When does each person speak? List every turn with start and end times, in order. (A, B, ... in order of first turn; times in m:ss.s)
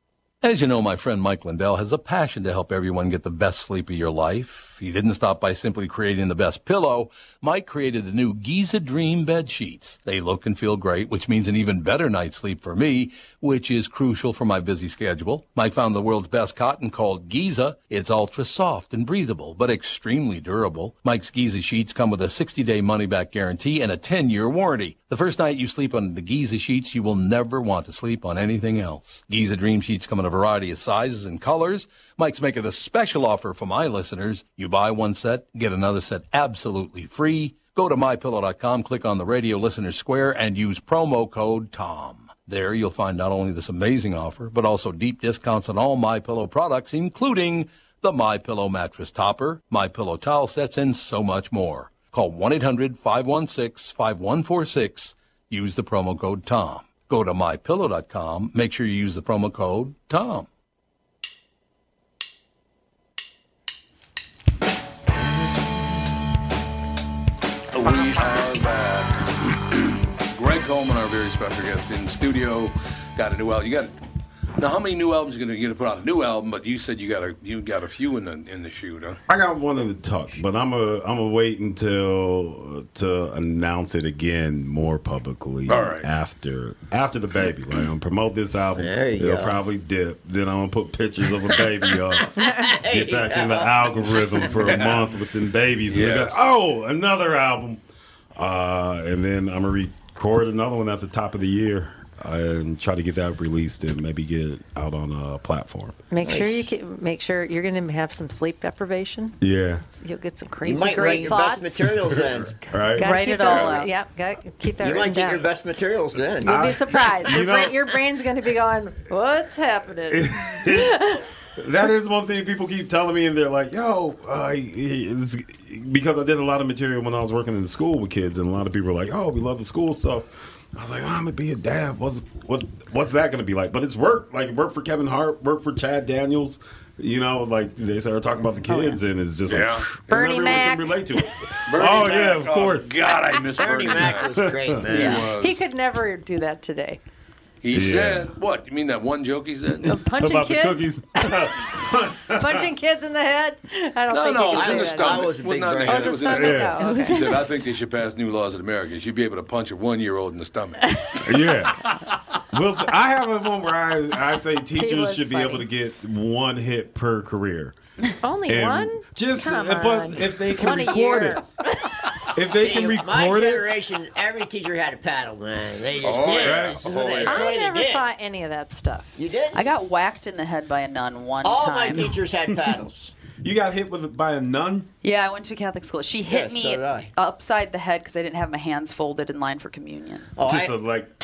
0:00.4-1:00.5 A
1:07.7-1:14.0 A
1:14.6-1:19.2 A
1:19.3-1:37.8 B
1:25.7-1:26.1 A
1:28.8-1:29.6 C
1:32.2-1:34.5 C
1:32.4-1:32.7 D
1:34.4-1:35.2 A
1:35.9-1:36.5 A
1:38.4-1:46.0 B
1:46.1-1:49.4 D
1:46.2-1:46.7 C
1:49.4-1:49.8 B
1:49.9-1:52.0 D
1:50.6-1:52.6 C
1:51.1-1:51.3 E
1:52.1-1:53.1 B
1:53.0-1:55.5 D
1:53.0-1:53.9 E
1:53.4-1:53.8 A
1:54.8-1:57.4 C
1:56.4-2:01.3 D
1:56.5-1:58.0 B
2:00.1-2:01.0 B
2:01.6-2:22.9 B
2:18.7-2:19.0 D
2:19.5-2:20.0 A
2:20.1-2:21.1 D
2:21.6-2:25.6 A
2:23.6-2:25.3 C
2:24.4-2:25.2 B
2:24.9-2:27.0 D
2:27.6-2:30.0 A
2:27.7-2:28.3 B
2:29.8-2:32.7 B
2:29.8-2:35.3 D
2:34.1-2:42.2 A
2:34.5-2:36.4 C
2:35.9-2:37.6 D
2:36.3-2:36.8 B
2:36.8-2:37.2 E
2:41.2-2:41.8 B
2:42.5-2:47.8 B
2:44.7-2:45.7 D
2:48.2-2:51.9 D
2:48.5-2:51.4 B
2:52.3-2:53.7 B
2:52.5-2:58.1 C
2:56.0-2:57.5 A
2:56.4-2:56.8 B
2:57.2-2:59.2 D
2:59.2-2:59.7 C
2:59.5-3:02.2 E
3:01.4-3:03.2 C
3:03.4-3:04.9 B
3:05.0-3:10.3 E
3:06.3-3:07.1 C
3:10.4-3:10.8 C
3:10.4-3:11.1 B